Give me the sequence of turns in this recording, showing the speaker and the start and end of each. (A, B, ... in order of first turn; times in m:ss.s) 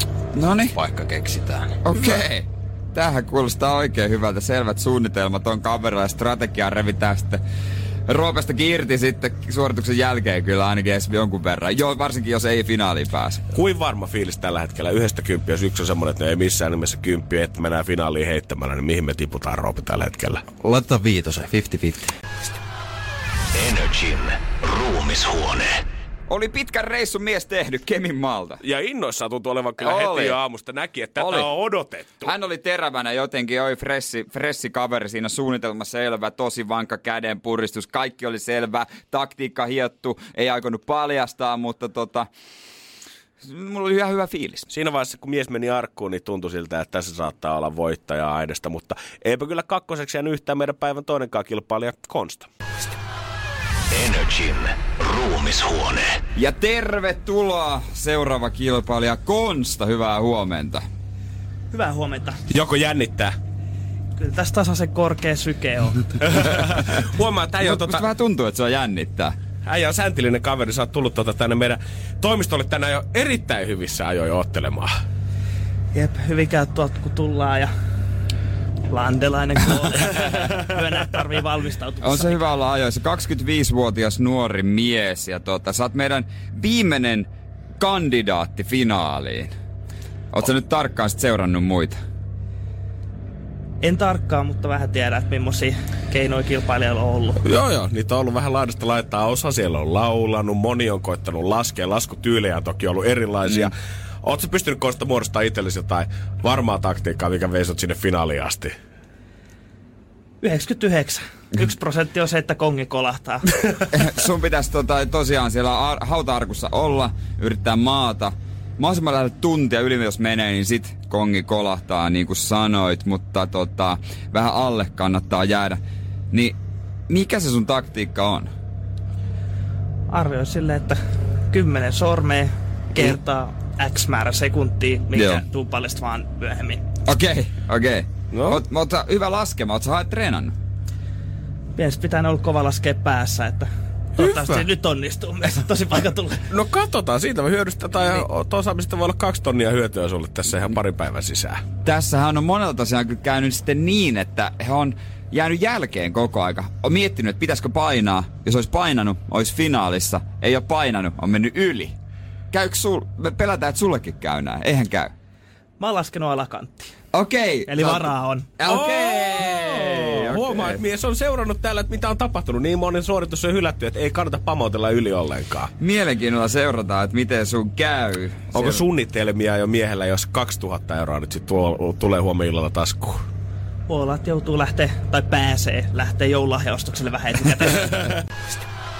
0:00.3-0:00.8 A
0:00.7-0:01.8 B
0:01.8-0:07.4 A
0:08.1-0:13.4 A
0:13.5-0:20.4 C
0:20.6-0:22.1 B
0:23.6-0:24.2 D
0:24.8-0:25.7 D
0:26.3-0:28.6 A
0:28.6-0:32.3 C
0:29.8-0:30.4 A
0:31.2-0:31.5 A
0:32.2-0:42.3 A
0:43.4-0:44.7 A
0:44.7-0:52.5 C
0:54.0-0:54.6 D
0:55.3-0:56.0 D
0:56.4-1:00.8 A
1:01.7-1:02.4 E
1:02.5-1:03.3 C
1:04.2-1:06.4 E
1:06.4-1:08.1 C
1:07.6-1:09.3 A
1:09.6-1:14.9 C
1:15.9-1:17.7 E
1:18.9-1:22.4 E
1:22.0-1:29.5 A
1:30.3-1:32.0 A
1:33.8-1:37.4 E
1:37.4-1:48.7 C
1:50.4-1:53.5 E
1:53.9-2:05.8 A
2:06.3-2:06.6 A
2:07.1-2:08.5 A
2:10.1-2:11.0 E
2:11.5-2:16.8 E
2:15.1-2:15.4 A
2:17.0-2:20.5 A
2:18.3-2:18.6 C
2:21.8-2:26.4 E
2:24.2-2:24.6 C
2:26.5-2:31.6 C
2:31.8-2:41.9 A
2:42.5-2:45.1 A
2:45.8-2:46.9 E
2:47.1-2:50.8 A
2:47.7-2:48.5 E
2:48.6-2:55.7 C
2:55.8-2:58.8 A
2:58.5-3:03.2 C
3:03.9-3:08.2 E